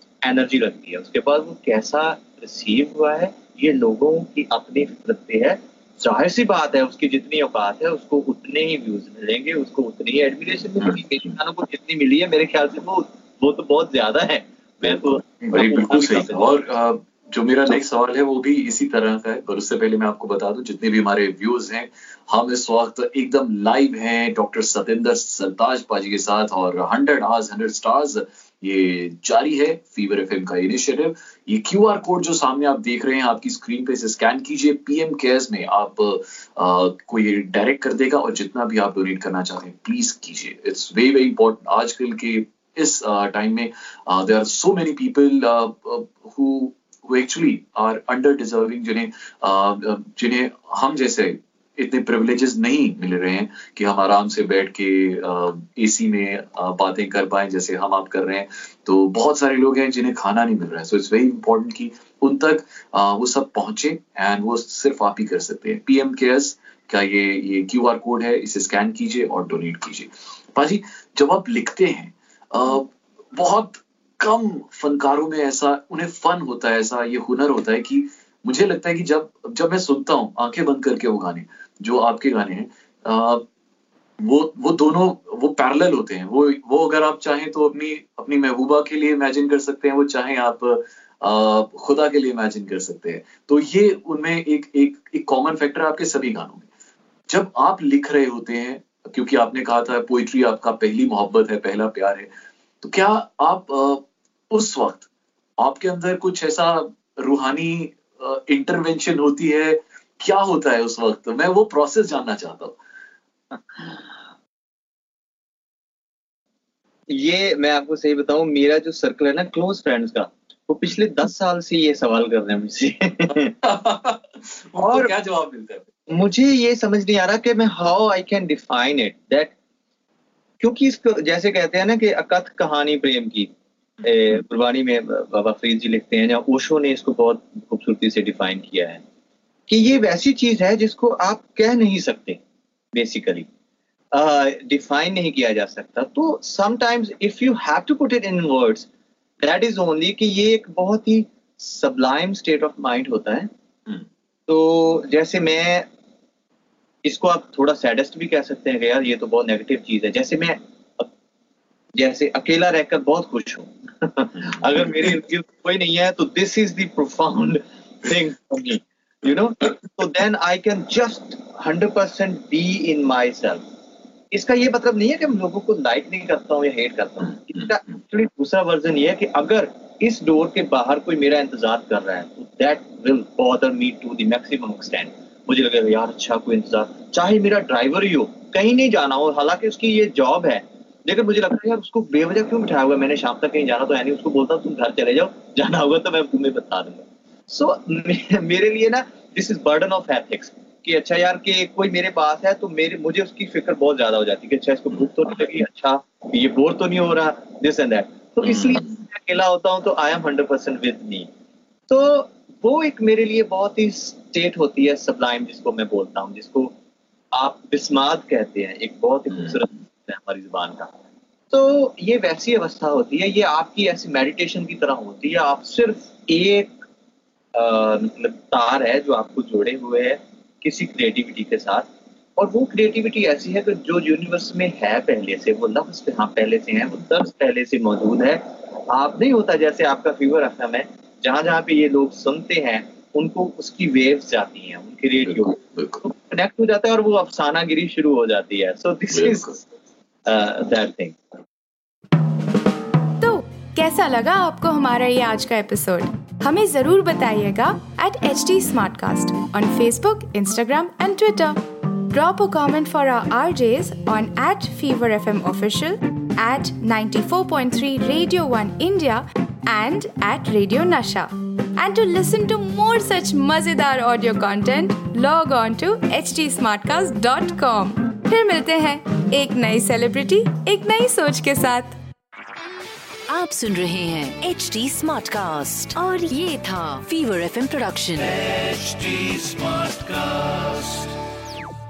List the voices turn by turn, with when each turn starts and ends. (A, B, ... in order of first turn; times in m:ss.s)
0:00.2-0:16.6 A
0:14.8-1:23.4 B
1:24.2-1:36.7 B
1:37.3-1:42.3 B
1:42.8-1:45.1 B
1:45.6-1:52.8 B
1:57.1-2:03.5 A
2:03.5-2:05.9 B
2:04.8-2:05.1 A
2:06.1-2:09.5 A
2:10.6-2:13.5 A
2:14.0-2:19.0 A
2:19.7-2:22.4 A
2:22.9-2:23.5 A
2:24.1-2:28.9 A
2:29.4-2:33.5 A
2:34.5-2:35.9 A
2:37.0-2:41.1 A
2:41.9-2:53.6 A
2:44.4-2:44.7 B
2:54.3-3:31.3 A
3:28.4-3:29.0 B
3:31.9-3:36.7 A
3:37.3-3:40.9 A
3:41.5-3:46.8 A
3:47.5-4:09.6 A
4:05.2-4:06.0 B
4:09.1-4:09.6 B
4:10.2-4:11.2 A
4:13.2-4:41.9 C
4:43.3-4:50.9 D